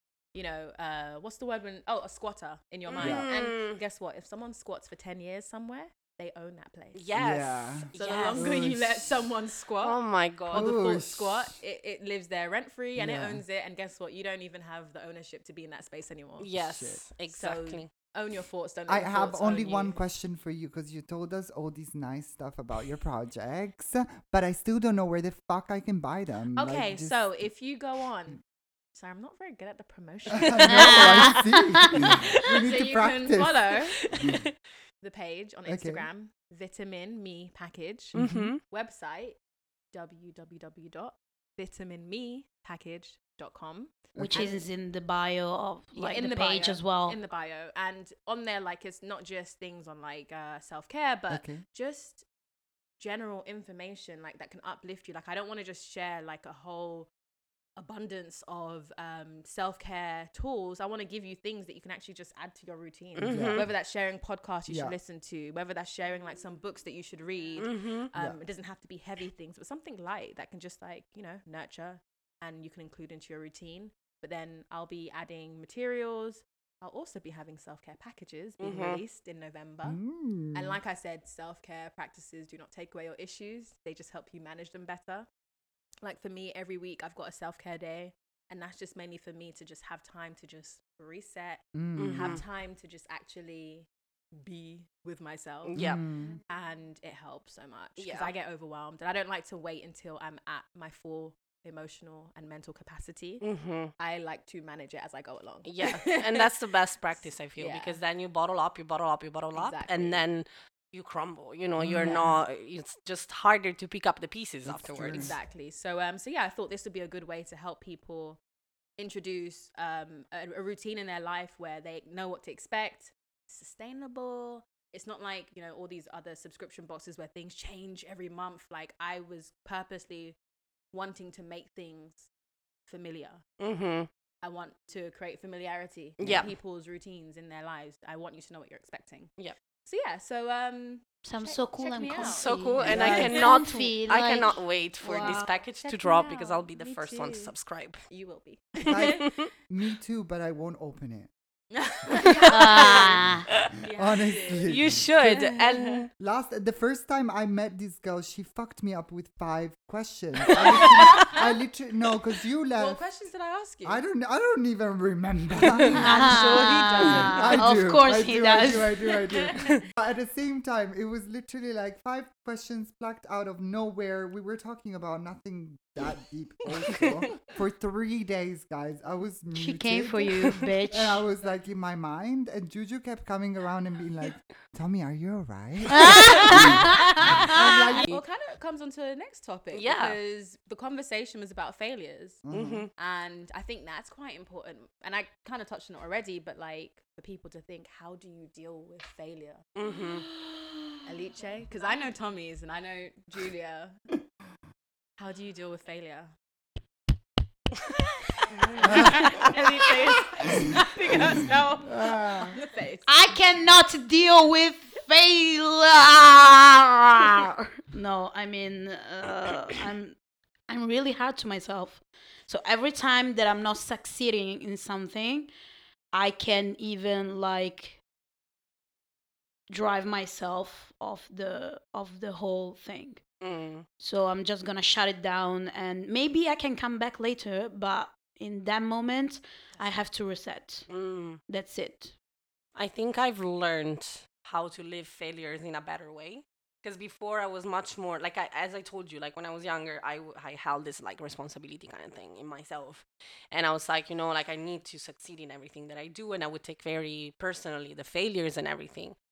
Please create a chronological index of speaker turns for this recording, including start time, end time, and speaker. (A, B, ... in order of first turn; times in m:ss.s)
0:00.3-0:07.1 A
0:02.9-0:03.8 B
0:03.0-0:03.3 C
0:06.9-0:08.6 B
0:07.2-0:09.3 C
0:07.9-0:16.5 A
0:09.8-0:10.7 B
0:10.5-0:11.6 C
0:13.0-0:13.4 C
0:16.4-0:17.9 B
0:16.6-0:17.1 C
0:17.3-0:20.0 A
0:18.9-0:27.3 C
0:26.6-0:28.4 A
0:28.9-0:31.4 A
0:30.3-0:33.7 C
0:30.7-0:31.6 D
0:32.1-0:34.1 A
0:35.0-0:39.4 A
0:35.7-0:36.1 C
0:38.1-0:38.6 B
0:38.2-0:38.6 C
0:39.9-0:44.6 A
0:44.2-0:44.6 C
0:44.2-0:47.2 D
0:46.0-0:52.2 A
0:51.3-0:51.6 C
0:53.0-0:57.1 A
0:57.8-1:20.0 A
1:03.2-1:03.7 B
1:03.2-1:03.7 C
1:04.7-1:05.0 C
1:07.6-1:08.1 B
1:18.6-1:19.0 B
1:19.8-1:20.8 C
1:20.5-1:25.3 A
1:26.0-1:43.4 A
1:31.7-1:32.4 C
1:32.0-1:32.4 B
1:35.6-1:36.0 B
1:35.8-1:36.4 C
1:38.0-1:38.3 B
1:43.4-1:43.9 B
1:44.0-1:46.5 A
1:45.6-1:55.4 B
1:47.6-1:48.0 A
1:49.6-1:50.2 A
1:51.8-1:52.4 C
1:52.0-1:52.3 A
1:54.6-1:55.4 C
1:55.1-1:58.4 A
1:59.0-2:10.4 A
2:10.9-2:12.3 A
2:12.9-2:13.4 A
2:13.6-2:14.1 B
2:14.4-2:19.3 A
2:16.2-2:16.5 B
2:16.2-2:16.5 C
2:19.8-2:23.6 A
2:21.2-2:25.5 D
2:22.2-2:28.1 B
2:22.8-2:23.4 C
2:25.0-2:27.5 A
2:28.1-2:29.3 A
2:28.9-2:31.3 C
2:28.9-2:29.5 B
2:31.8-2:33.2 A
2:32.1-2:33.1 B
2:32.5-2:33.5 D
2:33.8-2:34.7 A
2:33.9-2:35.4 C
2:34.6-2:36.1 B
2:35.2-2:36.0 A
2:36.2-2:43.0 C
2:40.6-2:41.4 A
2:42.8-2:44.0 A
2:43.8-3:08.1 C
2:45.8-2:47.7 A
2:46.0-2:49.0 D
2:46.2-2:47.2 B
2:49.4-2:49.8 A
2:59.6-3:01.2 D
3:06.1-3:06.8 D
3:06.2-3:19.7 A
3:07.4-3:08.2 B
3:09.7-3:10.2 B
3:12.4-3:12.9 C
3:12.5-3:12.9 B
3:19.8-3:20.2 B
3:21.0-3:24.1 A
3:25.2-3:26.4 A
3:28.4-3:33.1 A
3:28.8-3:30.6 B
3:28.8-3:29.3 C
3:31.2-3:32.6 C
3:33.1-3:40.2 D
3:40.7-3:45.5 D
3:46.1-3:48.0 D
3:49.7-3:53.2 D
3:53.4-3:53.9 B
3:54.0-4:00.9 D
3:59.7-4:00.0 A
4:00.9-4:01.4 B
4:01.5-4:02.2 D
4:02.8-4:19.2 B